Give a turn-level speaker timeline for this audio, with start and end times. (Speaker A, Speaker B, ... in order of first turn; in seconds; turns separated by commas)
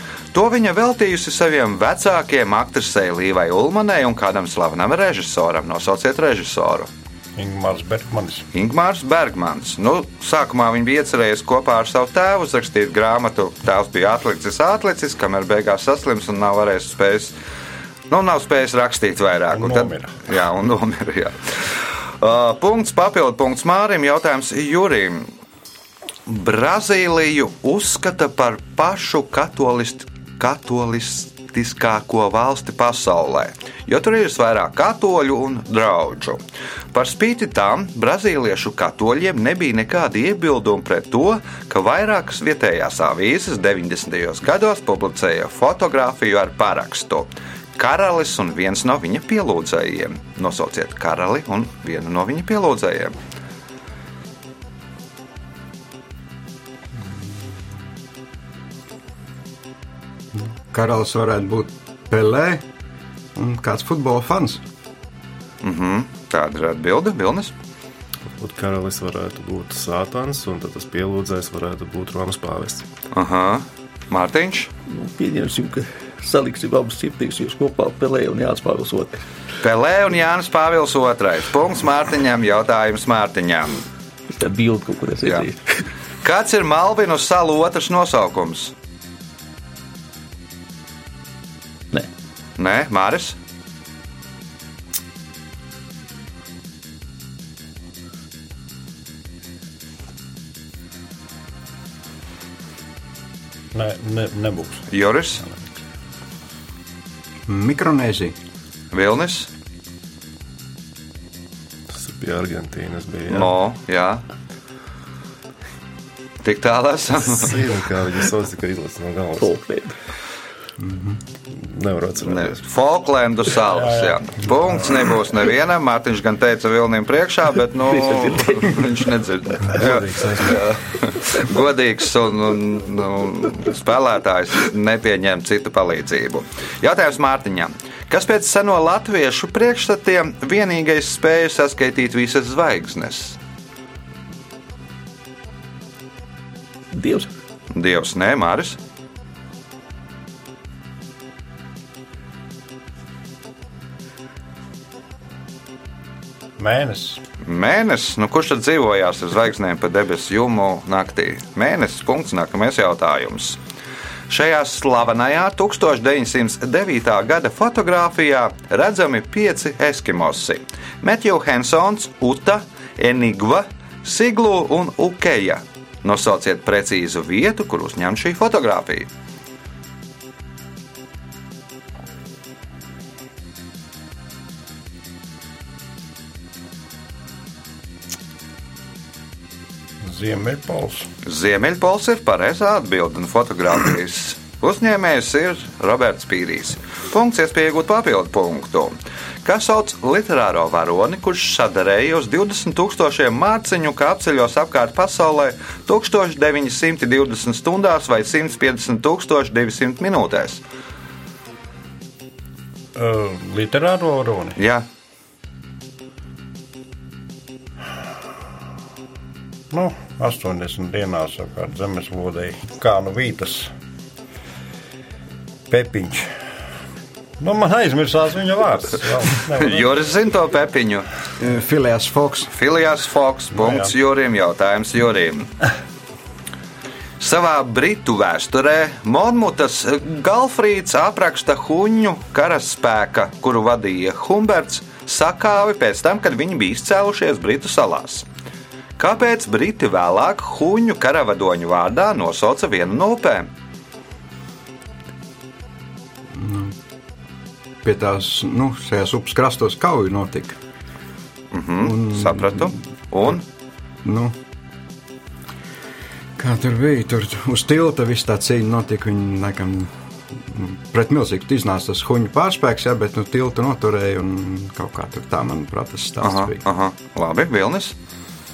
Speaker A: 0.3-6.9, Speaker B: 7.3-8.4, Speaker A: 8.5-17.3, Speaker A: 18.1-25.3, Speaker B: 19.5-20.1, Speaker A: 26.3-36.4, Speaker A: 36.9-53.1, Speaker C: 60.7-62.6, Speaker C: 63.3-64.6, Speaker A: 65.6-67.5, Speaker D: 68.4-72.9, Speaker A: 73.1-74.7, Speaker E: 74.9-79.2, Speaker A: 79.6-83.8, Speaker E: 84.3-85.8, Speaker A: 86.2-88.7, Speaker A: 92.6-93.4, Speaker B: 103.7-104.8, Speaker A: 104.9-105.4, Speaker C: 107.5-108.3, Speaker A: 108.9-109.5, Speaker D: 111.9-113.5, Speaker A: 113.3-114.2, Speaker A: 116.4-117.6, Speaker D: 117.3-119.5, Speaker E: 119.4-120.0, Speaker C: 120.8-121.2, Speaker D: 121.6-122.6, Speaker A: 122.2-143.4, Speaker B: 123.7-124.6, Speaker E: 127.9-128.8, Speaker D: 129.7-130.6, Speaker E: 146.9-147.3, Speaker A: 147.7-148.8, Speaker B: 156.6-157.2, Speaker A: 157.4-163.6, Speaker A: 164.3-179.1, Speaker B: 190.0-191.1, Speaker A: 191.2-210.6, Speaker B: 212.9-214.6, Speaker A: 214.6-214.8, Speaker B: 219.7-223.7, Speaker B: 225.7-226.3, Speaker B: 227.4-229.9, Speaker A: 229.6-231.1, Speaker C: 231.4-232.5, Speaker A: 232.5-235.5, Speaker A: 237.2-248.3, Speaker A: 249.0-253.5, Speaker C: 256.3-256.7, Speaker C: 257.8-260.6, Speaker A: 261.5-263.4, Speaker C: 261.8-262.8, Speaker C: 264.0-264.4, Speaker C: 266.4-276.6, Speaker A: 276.2-277.9